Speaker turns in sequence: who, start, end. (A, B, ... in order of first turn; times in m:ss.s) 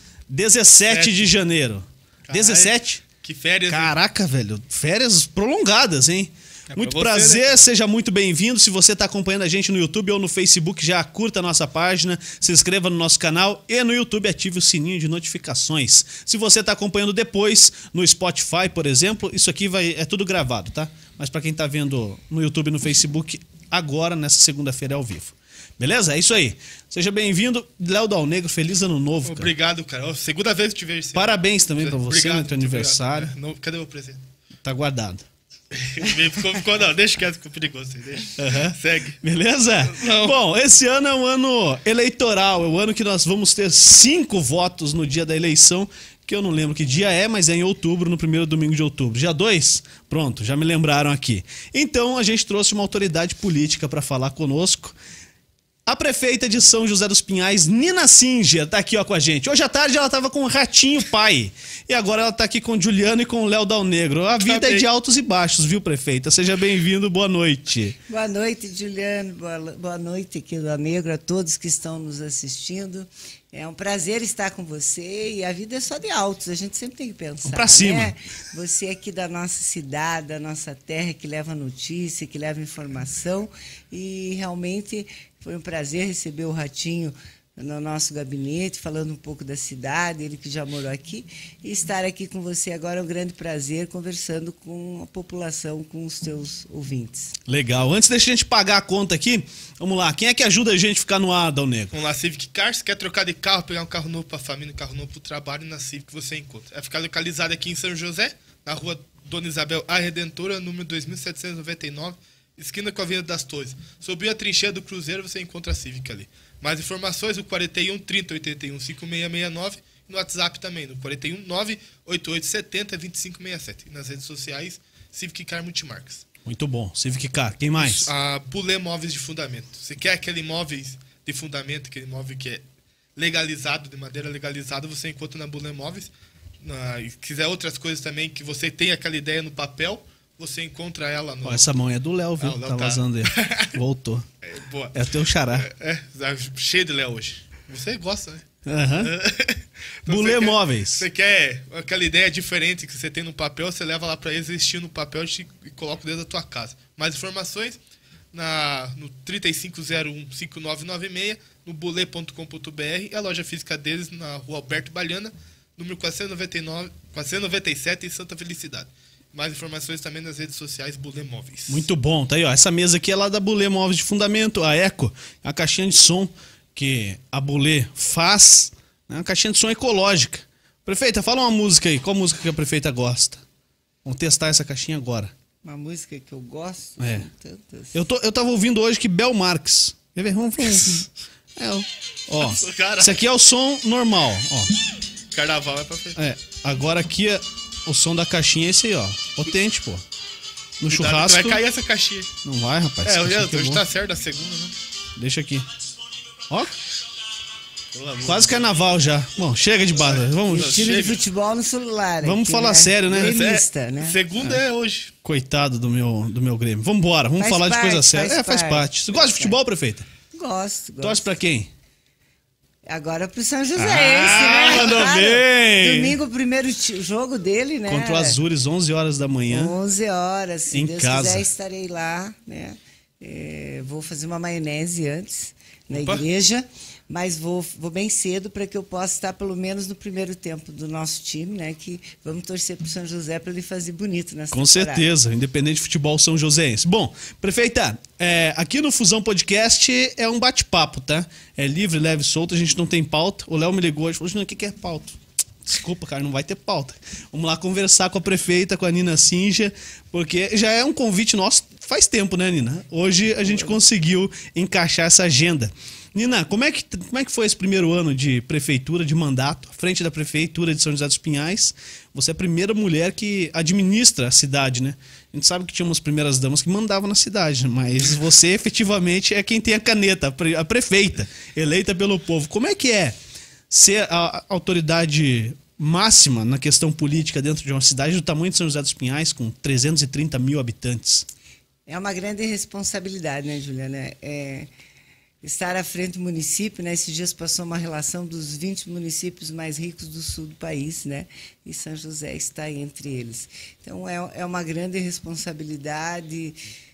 0:00.3-0:03.0 A
0:00.9-0:01.3 B
0:02.3-0:03.9 B
0:03.7-0:29.5 A
0:06.7-0:07.6 B
0:29.2-0:34.2 B
0:31.2-0:33.3 A
0:34.6-0:35.3 A
0:35.7-0:39.2 B
0:38.4-0:55.0 A
0:39.8-0:40.4 B
0:55.9-1:08.0 A
1:04.4-1:04.9 B
1:08.1-1:37.4 C
1:17.5-1:18.2 A
1:37.5-1:41.9 A
1:41.9-2:06.3 B
2:06.4-2:08.1 A
2:07.8-2:12.6 B
2:13.2-2:21.7 B
2:21.4-2:24.3 A
2:22.4-2:23.7 B
2:24.4-2:25.0 B
2:24.9-2:25.7 A
2:25.5-2:28.5 B
2:28.6-2:29.1 A
2:29.0-2:37.8 B
2:30.1-2:31.1 A
2:38.3-2:51.8 B
2:51.7-3:03.4 A
3:04.0-3:05.3 A
3:05.6-3:08.0 C
3:07.0-3:07.3 A
3:07.9-3:14.7 A
3:12.4-3:13.2 B
3:15.3-3:16.2 B
3:16.2-3:20.0 A
3:20.8-3:21.6 A
3:20.9-3:22.3 B
3:22.4-3:23.8 A
3:23.0-3:24.8 B
3:25.2-3:25.7 A
3:27.9-3:28.7 B
3:28.2-3:31.1 A
3:30.2-3:31.2 B
3:30.5-3:34.2 C
3:32.2-3:33.4 A
3:33.1-3:35.1 B
3:35.2-3:40.1 A
3:37.4-3:39.6 C
3:40.3-3:41.3 C
3:41.0-3:41.7 A
3:42.9-3:48.4 C
3:43.8-3:46.2 A
3:47.9-3:49.8 A
3:49.5-4:05.1 C
3:50.7-3:51.5 A
3:55.9-3:56.2 B
4:04.5-4:43.2 A
4:23.5-4:23.8 C
4:43.7-4:51.3 A
4:51.9-4:54.7 C
4:55.4-5:06.6 C